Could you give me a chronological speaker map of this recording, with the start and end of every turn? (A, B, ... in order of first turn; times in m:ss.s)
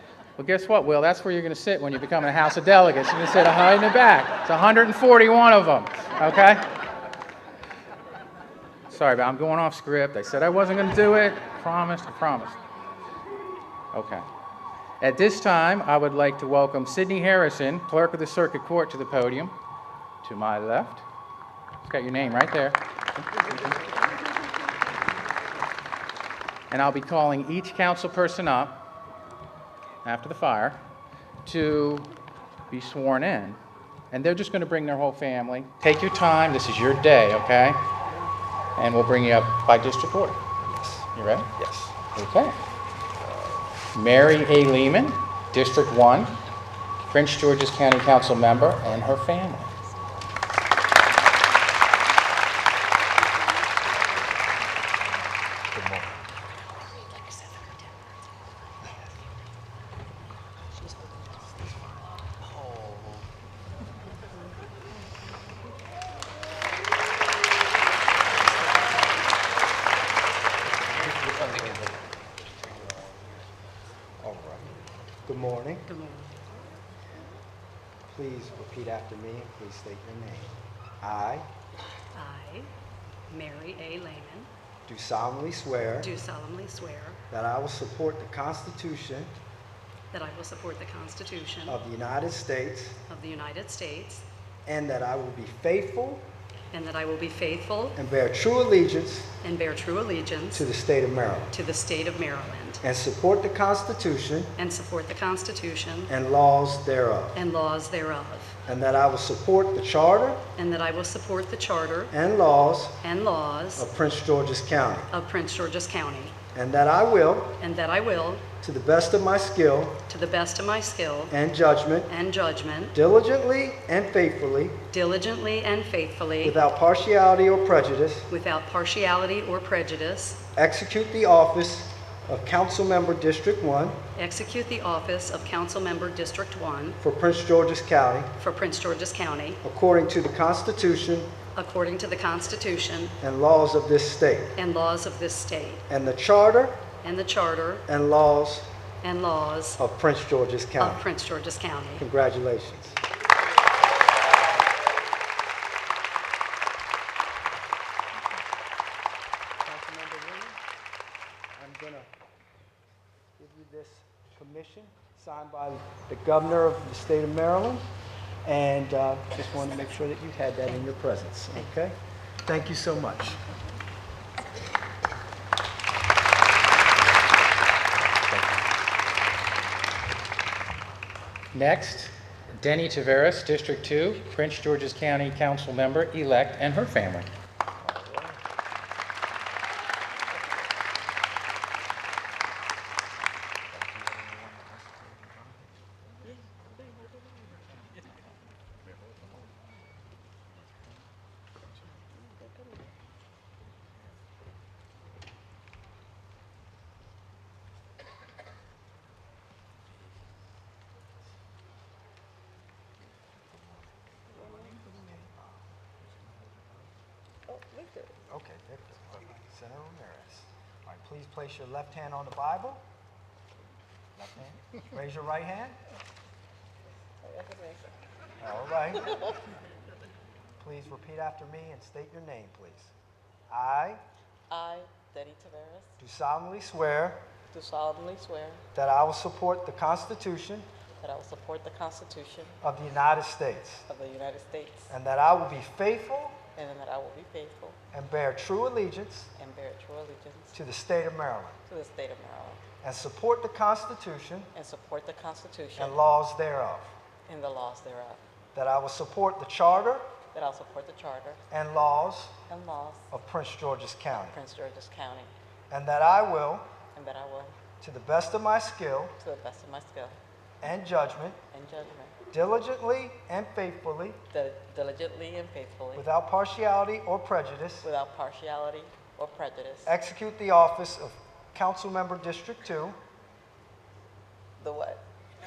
0:00.4-0:06.6 A
0:08.9-0:12.6 A
0:13.9-0:14.2 A
0:15.0-0:19.5 A
0:20.2-0:21.0 A
0:21.8-0:22.8 A
0:23.4-0:23.7 A
0:26.7-0:28.8 A
0:30.0-0:30.8 A
0:31.4-0:32.1 A
0:32.7-0:33.6 A
0:34.1-0:37.8 A
0:38.8-0:40.4 A
0:40.7-0:41.9 B
0:41.1-0:41.5 A
0:42.1-0:42.6 A
0:43.9-0:46.3 A
0:47.1-0:49.7 A
0:55.7-0:56.2 B
0:57.1-0:57.9 C
1:02.7-1:03.0 C
1:11.1-1:11.8 C
1:11.4-1:11.8 B
1:14.2-1:15.9 B
1:15.9-1:16.4 D
1:18.1-1:21.5 B
1:22.1-1:22.7 D
1:23.3-1:24.5 D
1:24.9-1:26.1 B
1:26.0-1:27.2 D
1:27.3-1:29.4 B
1:30.1-1:31.8 D
1:31.7-1:33.0 B
1:33.1-1:34.2 D
1:34.6-1:36.3 B
1:36.7-1:38.0 D
1:37.9-1:39.3 B
1:39.4-1:40.6 D
1:40.5-1:41.5 B
1:41.5-1:42.8 D
1:42.8-1:44.5 B
1:44.6-1:46.1 D
1:46.1-1:47.4 B
1:47.3-1:48.6 D
1:48.7-1:50.4 B
1:50.6-1:52.1 D
1:52.1-1:53.0 B
1:53.0-1:53.9 D
1:53.8-1:55.1 B
1:55.1-1:56.4 D
1:56.5-1:57.6 B
1:57.6-1:58.5 D
1:58.6-2:00.0 B
2:00.1-2:01.3 D
2:01.3-2:02.1 B
2:02.1-2:02.9 D
2:02.9-2:04.8 B
2:04.9-2:06.6 D
2:06.4-2:08.3 B
2:08.3-2:10.4 D
2:10.6-2:14.0 B
2:14.2-2:17.0 D
2:17.0-2:18.3 B
2:18.4-2:19.6 D
2:19.6-2:21.3 B
2:21.5-2:23.2 D
2:23.2-2:24.6 B
2:24.6-2:25.8 D
2:25.9-2:26.8 B
2:27.0-2:27.8 D
2:27.9-2:28.7 B
2:29.0-2:29.8 D
2:29.8-2:31.0 B
2:30.8-2:32.1 D
2:32.0-2:33.0 B
2:39.6-2:40.6 B
2:41.5-2:42.1 B
2:43.4-2:47.8 B
2:48.4-2:53.4 B
2:58.3-2:58.7 B
3:01.5-3:07.3 A
3:07.8-3:08.4 B
3:13.9-3:15.6 B
3:33.4-3:35.7 B
3:36.3-3:36.6 B
3:37.5-3:38.2 C
3:38.3-3:42.8 B
3:44.2-3:45.8 B
3:47.2-3:47.9 C
3:48.4-3:49.2 B
3:50.6-3:52.9 B
3:53.5-3:54.0 B
3:54.5-3:56.0 C
3:56.0-3:57.2 B
3:57.5-3:58.6 C
3:58.7-4:00.7 B
4:01.0-4:02.6 C
4:02.6-4:03.9 B
4:03.9-4:04.9 C
4:04.9-4:06.4 B
4:06.6-4:07.8 C
4:07.9-4:09.3 B
4:09.4-4:10.6 C
4:10.5-4:11.6 B
4:11.7-4:12.6 C
4:12.8-4:14.5 B
4:14.5-4:16.0 C
4:15.8-4:16.9 B
4:17.3-4:18.2 C
4:18.5-4:20.1 B
4:20.3-4:21.4 C
4:21.5-4:22.4 B
4:22.5-4:23.1 C
4:23.1-4:24.4 B
4:24.1-4:25.3 C
4:25.7-4:26.6 B
4:26.9-4:27.6 C
4:27.8-4:29.1 B
4:29.2-4:30.2 C
4:30.6-4:31.4 B
4:31.5-4:32.2 C
4:32.3-4:34.2 B
4:34.3-4:36.1 C
4:35.9-4:37.9 B
4:37.8-4:39.9 C
4:39.8-4:43.0 B
4:44.6-4:45.0 C